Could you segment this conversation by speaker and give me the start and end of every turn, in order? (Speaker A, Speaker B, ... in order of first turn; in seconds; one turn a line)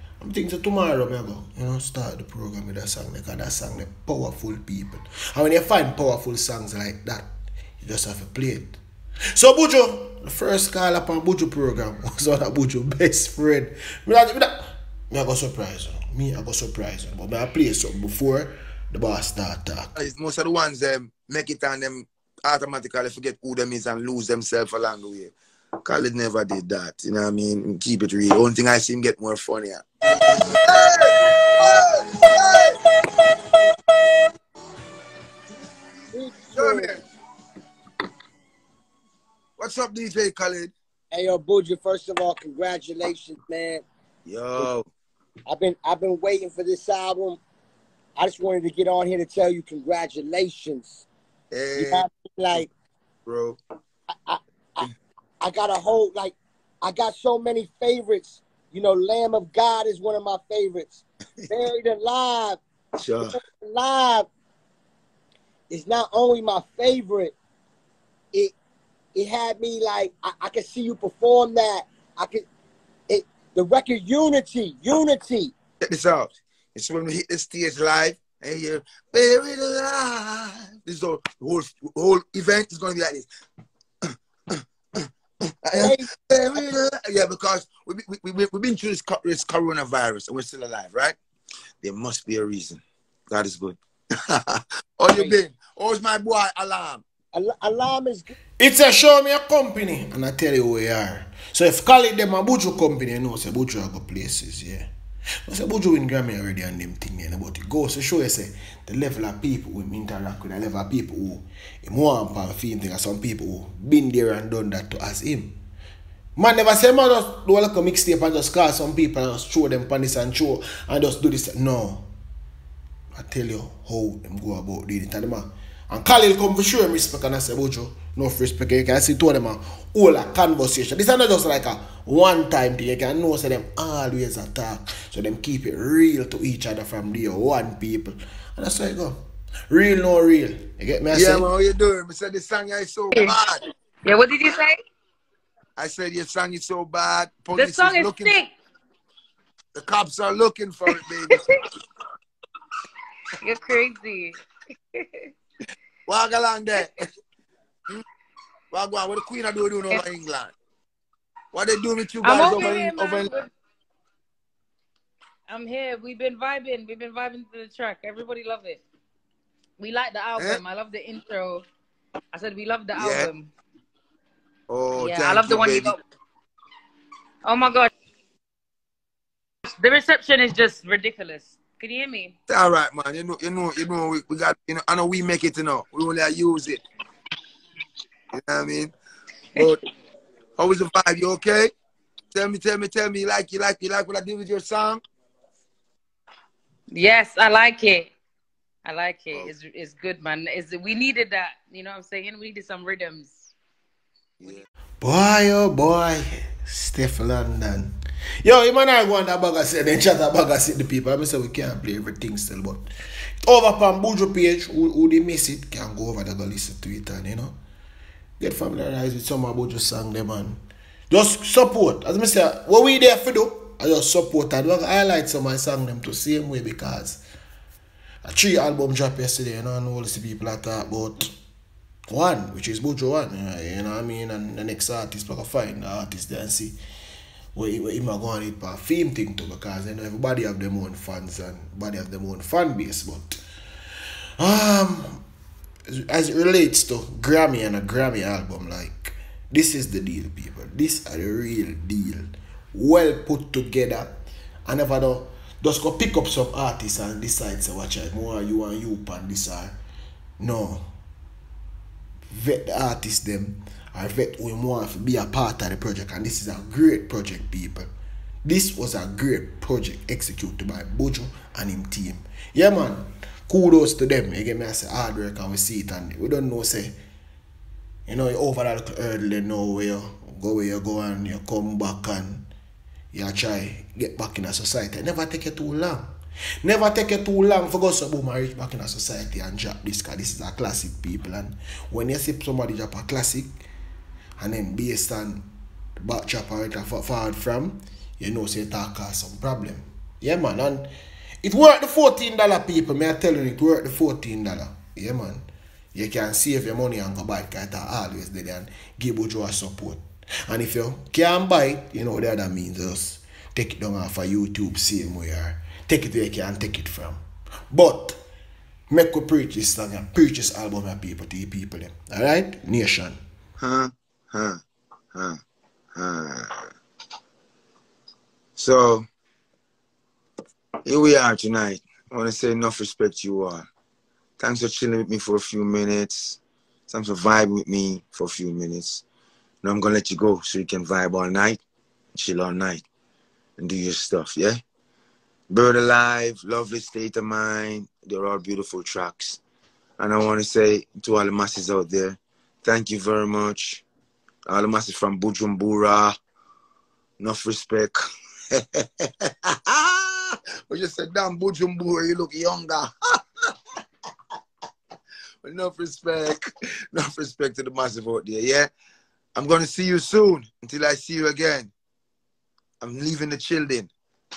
Speaker A: 0.2-7.3
Speaker A: 7.8-8.8
Speaker A: 9.3-19.9
Speaker B: 20.0-29.8
Speaker B: 30.6-32.8
Speaker C: 36.1-37.0
Speaker B: 36.5-37.0
Speaker B: 39.6-40.7
Speaker C: 41.1-43.9
Speaker B: 44.2-44.9
Speaker C: 45.5-47.4
Speaker C: 48.2-51.0
Speaker B: 51.5-52.6
Speaker C: 51.8-52.7
Speaker B: 53.2-53.6
Speaker C: 54.2-54.9
Speaker C: 55.4-62.6
Speaker B: 63.0-63.4
Speaker C: 63.2-64.3
Speaker C: 65.7-67.3
Speaker C: 69.2-72.5
Speaker C: 73.1-75.5
Speaker B: 75.8-83.3
Speaker B: 84.6-85.0
Speaker B: 85.6-91.2
Speaker C: 85.8-86.1
Speaker B: 91.8-93.8
Speaker B: 94.3-97.0
Speaker C: 95.1-95.4
Speaker C: 97.3-98.3
Speaker A: 98.6-104.9
Speaker A: 105.5-115.6
Speaker A: 116.4-122.1
Speaker A: 123.1-141.5
Speaker B: 141.1-143.6
Speaker D: 144.1-144.8
Speaker B: 145.8-148.4
Speaker D: 147.6-148.5
Speaker B: 149.8-151.4
Speaker D: 153.4-154.4
Speaker D: 155.0-155.3
Speaker B: 156.1-156.9
Speaker B: 158.7-160.6
Speaker B: 161.5-163.3
Speaker D: 162.2-163.5
Speaker D: 165.5-168.8
Speaker D: 169.8-171.7
Speaker D: 172.3-173.5
Speaker B: 173.0-173.3
Speaker B: 174.7-175.9
Speaker D: 175.0-176.0
Speaker D: 177.4-177.9
Speaker D: 179.7-182.3
Speaker B: 182.5-186.8
Speaker B: 188.3-188.9
Speaker B: 189.6-189.8
Speaker B: 190.6-191.7
Speaker B: 192.3-195.0
Speaker D: 196.9-198.1
Speaker D: 198.8-203.5
Speaker A: 205.0-212.9
Speaker A: 213.4-217.6
Speaker A: 218.4-227.2
Speaker A: 228.2-231.3
Speaker A: 232.1-236.8
Speaker A: 237.6-243.4
Speaker A: 244.4-245.2
Speaker A: 245.9-259.8
Speaker A: 260.4-260.9
Speaker A: 262.3-267.9
Speaker A: 268.4-277.0
Speaker A: 278.1-282.5
Speaker A: 283.1-286.1
Speaker A: 286.6-293.5
Speaker A: 294.4-295.5
Speaker A: 296.0-300.9
Speaker A: 301.4-317.2
Speaker A: 317.7-318.2
Speaker A: 318.9-323.2
Speaker B: 323.6-324.6
Speaker B: 325.1-325.4
Speaker B: 325.9-326.6
Speaker B: 328.6-329.1
Speaker B: 330.9-333.7
Speaker B: 334.4-339.0
Speaker B: 339.6-341.6
Speaker B: 342.1-342.9
Speaker B: 343.6-344.6
Speaker B: 345.5-349.4
Speaker B: 350.0-353.8
Speaker B: 354.5-356.1
Speaker B: 357.2-358.0
Speaker B: 358.5-358.9
Speaker B: 359.7-362.9
Speaker B: 365.4-366.4
Speaker B: 366.9-368.7
Speaker B: 369.4-371.7
Speaker B: 372.8-373.9